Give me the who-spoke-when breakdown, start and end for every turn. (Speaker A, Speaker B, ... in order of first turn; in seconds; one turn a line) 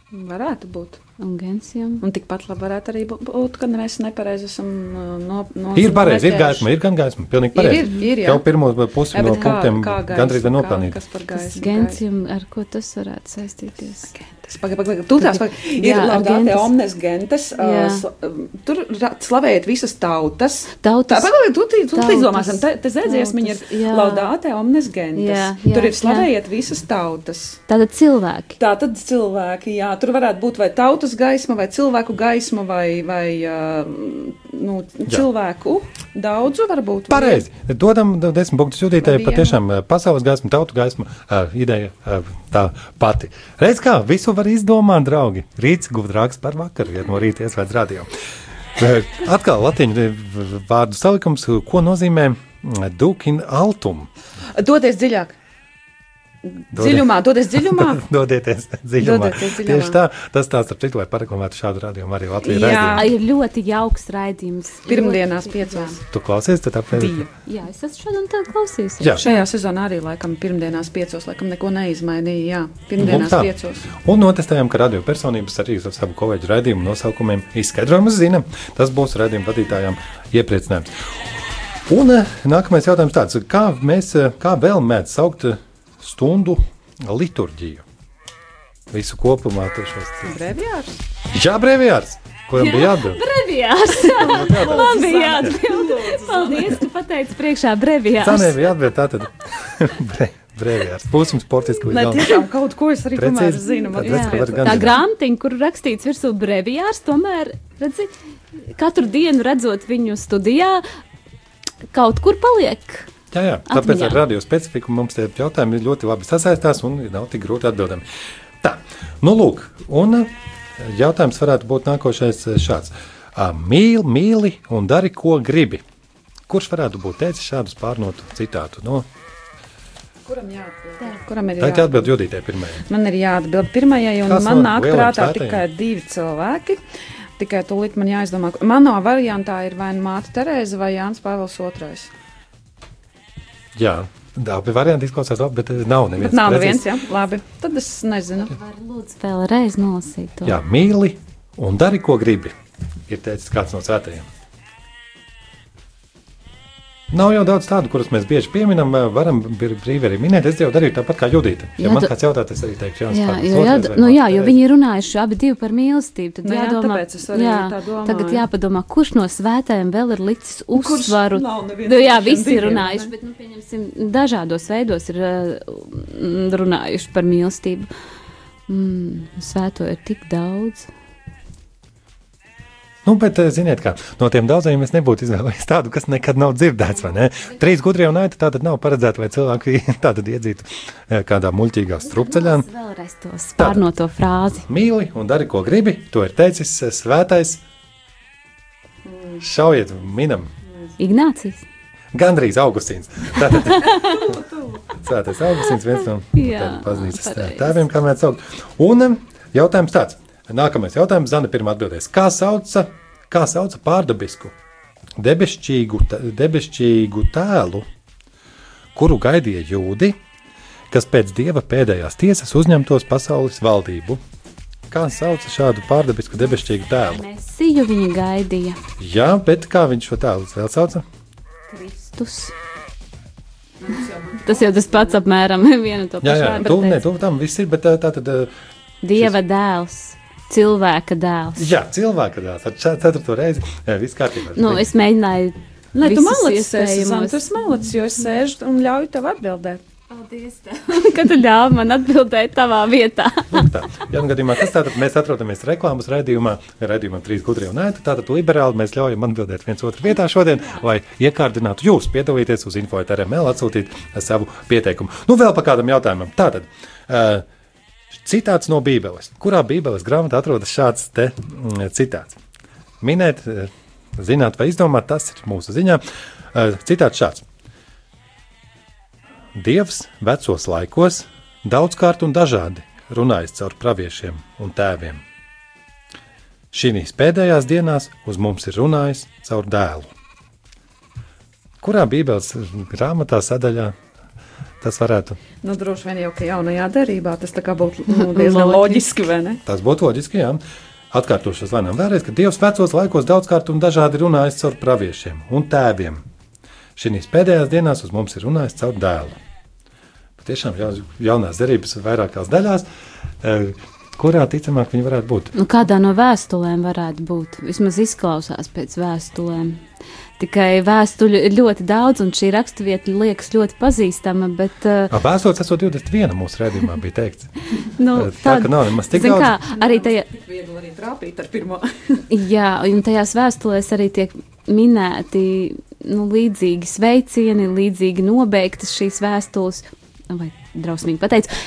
Speaker A: 0.1-1.0
Speaker B: 1.2-2.0
Speaker A: 2.0-6.7
Speaker C: 5.7-10.9
Speaker A: 7.5-8.4
Speaker A: 9.1-12.0
Speaker B: 11.3-14.1
Speaker A: 14.1-27.6
Speaker B: 15.2-16.7
Speaker B: 17.6-18.0
Speaker B: 20.8-21.3
Speaker B: 21.9-24.3
Speaker B: 25.1-26.3
Speaker B: 27.7-28.6
Speaker A: 28.6-37.4
Speaker C: 37.1-48.1
Speaker A: 39.0-39.6
Speaker C: 48.8-54.1
Speaker A: 54.5-55.3
Speaker A: 56.6-58.0
Speaker C: 56.7-63.1
Speaker A: 59.0-60.0
Speaker A: 62.4-63.1
Speaker B: 62.8-66.0
Speaker A: 64.9-66.0
Speaker C: 66.1-67.2
Speaker A: 66.9-67.3
Speaker B: 67.5-69.4
Speaker C: 69.0-69.2
Speaker A: 69.2-73.9
Speaker C: 73.0-80.9
Speaker C: 81.9-87.8
Speaker C: 88.9-90.4
Speaker A: 90.3-91.0
Speaker C: 91.3-93.2
Speaker B: 92.5-98.6
Speaker A: 94.0-96.8
Speaker C: 94.2-95.5
Speaker C: 98.2-102.4
Speaker A: 101.9-105.0
Speaker C: 103.1-105.0
Speaker B: 104.0-108.1
Speaker B: 108.7-110.8
Speaker B: 111.9-113.1
Speaker C: 113.3-118.0
Speaker B: 113.7-114.2
Speaker C: 118.6-125.8
Speaker C: 126.5-129.1
Speaker A: 130.2-132.1
Speaker C: 131.6-132.8
Speaker A: 132.8-136.8
Speaker C: 134.3-135.6
Speaker A: 137.4-142.1
Speaker C: 143.8-146.9
Speaker A: 146.2-148.5
Speaker B: 148.5-150.6
Speaker C: 150.4-152.5
Speaker C: 153.1-154.2
Speaker C: 157.1-164.6
Speaker B: 161.8-162.1
Speaker B: 163.1-177.9
Speaker A: 166.4-168.4
Speaker A: 170.7-173.1
Speaker B: 178.7-180.9
Speaker C: 183.0-192.7
Speaker B: 192.0-194.6
Speaker C: 193.6-193.9
Speaker C: 194.7-197.6
Speaker C: 199.4-200.5
Speaker B: 201.0-201.6
Speaker C: 202.1-204.2
Speaker B: 203.7-204.1
Speaker A: 203.8-204.8
Speaker C: 204.9-214.5
Speaker B: 206.3-207.8
Speaker C: 215.2-217.8
Speaker C: 218.9-220.2
Speaker C: 220.9-224.2
Speaker C: 224.9-227.2
Speaker B: 227.0-228.8
Speaker C: 229.0-231.0
Speaker B: 231.7-232.5
Speaker A: 233.8-235.2
Speaker B: 234.4-237.0
Speaker C: 236.2-238.5
Speaker B: 239.0-241.7
Speaker C: 241.6-244.9
Speaker B: 244.5-247.5
Speaker A: 245.9-249.8
Speaker B: 250.1-253.7
Speaker C: 253.5-267.4
Speaker C: 268.1-272.4
Speaker C: 273.0-277.4
Speaker C: 279.5-285.2
Speaker C: 286.7-290.1
Speaker C: 291.8-293.9
Speaker C: 294.8-295.4
Speaker A: 295.6-299.6
Speaker B: 298.1-299.0
Speaker C: 299.6-300.6
Speaker C: 301.1-306.2
Speaker C: 306.9-309.4
Speaker C: 310.4-312.9
Speaker C: 313.4-315.5
Speaker B: 315.5-319.8
Speaker B: 320.4-325.1
Speaker C: 325.1-327.5
Speaker B: 327.9-330.2
Speaker C: 328.1-329.6
Speaker A: 329.7-332.2
Speaker B: 332.3-341.5